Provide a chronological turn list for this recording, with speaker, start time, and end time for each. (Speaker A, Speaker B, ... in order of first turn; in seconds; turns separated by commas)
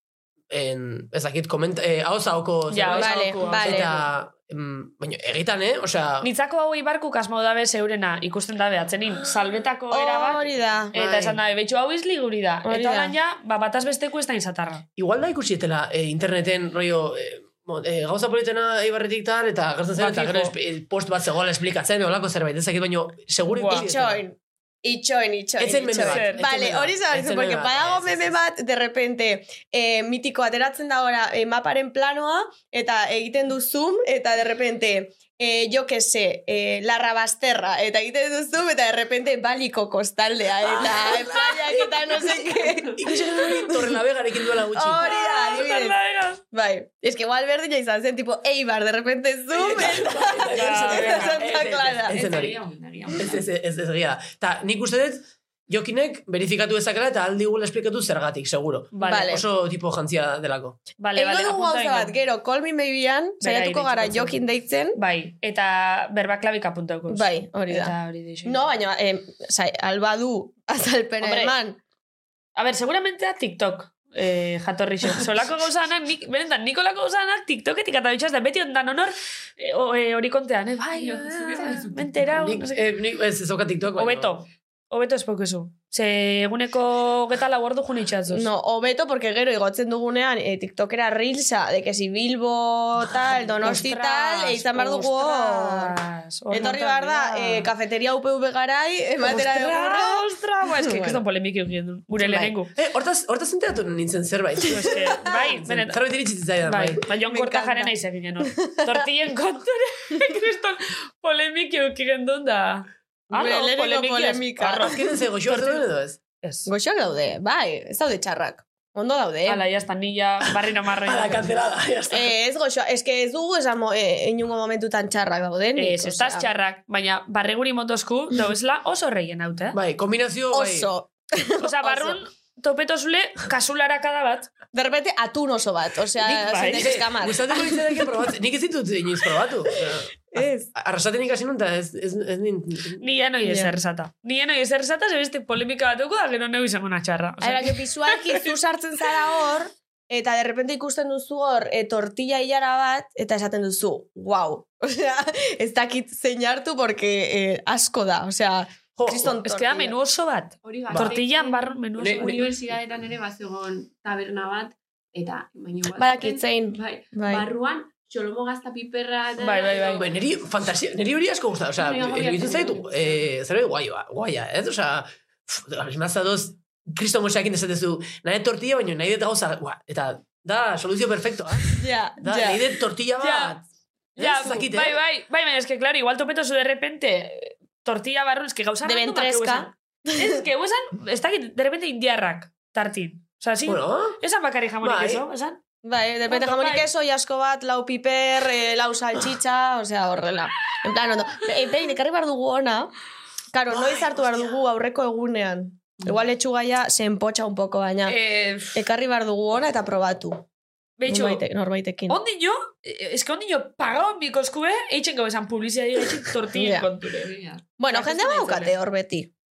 Speaker A: 0.5-6.3, Speaker B: 2.7-4.0, Speaker C: 2.9-4.0, Speaker B: 6.2-14.8, Speaker C: 9.9-10.9, Speaker A: 10.9-11.4, Speaker C: 12.7-13.2, Speaker A: 15.0-24.2, Speaker B: 20.0-20.5, Speaker B: 23.5-23.9, Speaker C: 23.7-44.0, Speaker A: 25.6-28.4, Speaker B: 26.1-26.4, Speaker A: 40.8-42.4, Speaker D: 42.5-43.0, Speaker A: 43.0-45.1, Speaker C: 44.7-46.0, Speaker B: 45.0-46.4, Speaker C: 46.5-52.2, Speaker A: 49.5-52.6, Speaker B: 50.5-51.4, Speaker D: 51.7-53.5, Speaker A: 53.2-60.8, Speaker B: 58.9-59.4, Speaker C: 59.0-59.4, Speaker B: 61.0-62.1, Speaker C: 61.1-65.0, Speaker B: 63.4-64.4, Speaker B: 65.0-68.6, Speaker C: 67.1-71.8, Speaker B: 71.2-71.5, Speaker B: 72.6-82.8, Speaker D: 80.9-82.2, Speaker A: 82.4-84.4, Speaker B: 84.0-88.5, Speaker C: 88.3-96.0, Speaker B: 93.6-97.7, Speaker C: 96.5-101.2, Speaker B: 99.2-102.7, Speaker C: 102.2-102.5, Speaker A: 102.8-105.1, Speaker B: 104.7-106.0, Speaker C: 104.9-105.4, Speaker A: 105.7-107.0, Speaker B: 106.7-115.8, Speaker C: 107.2-109.0, Speaker C: 113.3-115.2, Speaker A: 114.8-116.2, Speaker B: 116.4-116.7, Speaker C: 116.7-119.6, Speaker B: 119.5-121.5, Speaker A: 121.0-122.3, Speaker C: 122.1-126.5, Speaker B: 125.8-129.8, Speaker A: 129.7-130.9, Speaker C: 130.5-132.2, Speaker B: 131.6-134.5, Speaker C: 134.7-137.8, Speaker B: 136.2-136.9, Speaker A: 136.7-143.0, Speaker C: 140.3-140.7, Speaker B: 143.0-148.4, Speaker C: 143.4-143.7, Speaker C: 147.4-159.9, Speaker A: 159.0-159.4, Speaker B: 159.4-162.4, Speaker D: 160.6-170.1, Speaker A: 160.9-161.2, Speaker A: 162.0-162.6, Speaker C: 165.9-167.5, Speaker B: 169.4-170.0, Speaker A: 170.0-183.6, Speaker D: 171.8-173.3, Speaker C: 181.8-182.6, Speaker B: 183.2-183.6, Speaker A: 184.2-185.0, Speaker B: 184.2-195.6, Speaker C: 188.8-190.4, Speaker A: 193.7-194.2, Speaker A: 194.8-195.2, Speaker C: 195.8-202.9, Speaker B: 196.3-196.8, Speaker C: 203.5-208.2, Speaker B: 208.1-208.8, Speaker C: 208.7-210.4, Speaker B: 211.0-211.4, Speaker C: 211.1-212.2, Speaker B: 212.1-217.3, Speaker C: 216.5-216.9, Speaker D: 217.2-217.7, Speaker C: 217.8-219.3, Speaker B: 217.9-218.7